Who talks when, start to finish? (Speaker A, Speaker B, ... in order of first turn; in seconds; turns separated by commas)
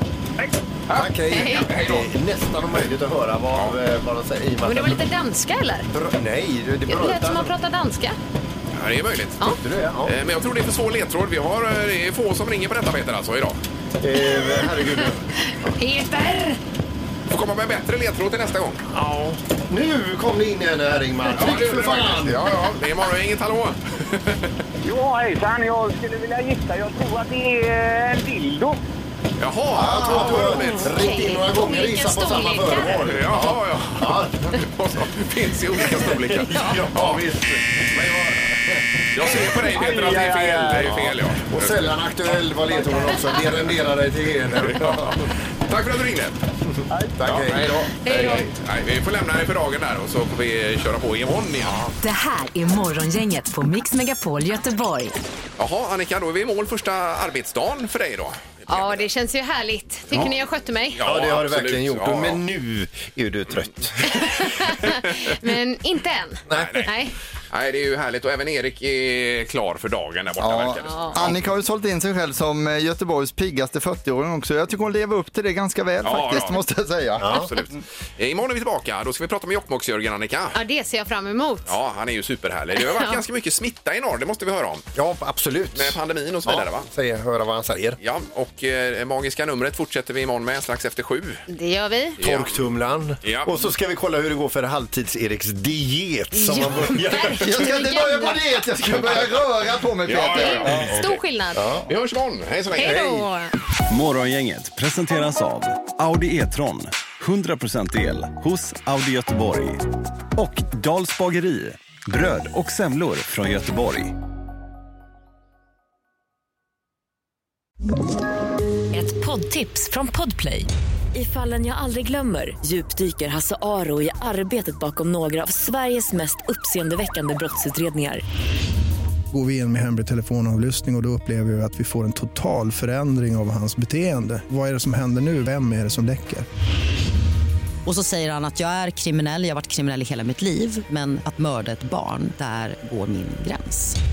Speaker A: 0.9-2.1, Speaker B: 0.9-5.0, Speaker C: 1.3-1.7, Speaker C: 4.6-5.9, Speaker B: 5.9-7.5, Speaker C: 6.9-8.2, Speaker A: 8.7-9.4, Speaker B: 9.6-10.1, Speaker A: 10.0-13.6, Speaker B: 14.0-15.7, Speaker C: 15.5-16.6, Speaker A: 17.3-18.8, Speaker B: 18.9-22.5, Speaker A: 21.3-24.5, Speaker D: 24.8-28.8, Speaker A: 29.4-31.0, Speaker B: 29.7-34.7, Speaker C: 30.4-33.0, Speaker A: 33.0-37.2, Speaker B: 35.9-38.8, Speaker C: 36.4-36.8, Speaker A: 37.9-38.4, Speaker A: 39.1-41.9, Speaker D: 39.6-41.0, Speaker B: 40.8-45.2, Speaker A: 44.6-51.8, Speaker B: 47.2-47.7, Speaker C: 48.0-48.4, Speaker B: 51.6-51.9, Speaker E: 52.0-55.1, Speaker A: 55.6-59.1, Speaker C: 58.7-61.0, Speaker A: 61.0-62.4, Speaker B: 61.0-64.3, Speaker C: 64.1-67.1, Speaker B: 66.5-66.9, Speaker A: 66.5-66.9, Speaker A: 67.5-71.3, Speaker F: 70.4-77.5, Speaker C: 70.8-71.2, Speaker A: 76.0-76.6, Speaker B: 77.2-77.5, Speaker A: 77.2-80.5, Speaker C: 80.5-81.7, Speaker A: 81.7-84.9, Speaker C: 82.8-83.2, Speaker B: 85.0-88.0, Speaker A: 85.7-86.9, Speaker A: 88.0-91.4, Speaker C: 91.5-92.2, Speaker A: 92.2-92.6, Speaker B: 92.2-97.6, Speaker A: 93.2-93.5, Speaker C: 96.3-98.4, Speaker F: 97.2-100.9, Speaker A: 100.0-101.0, Speaker C: 100.3-101.7, Speaker B: 100.7-101.9, Speaker A: 101.9-103.0, Speaker B: 102.8-103.2, Speaker C: 102.8-103.5, Speaker G: 103.9-109.8, Speaker G: 110.3-114.1, Speaker H: 118.9-128.2, Speaker I: 129.3-136.4, Speaker J: 137.8-144.0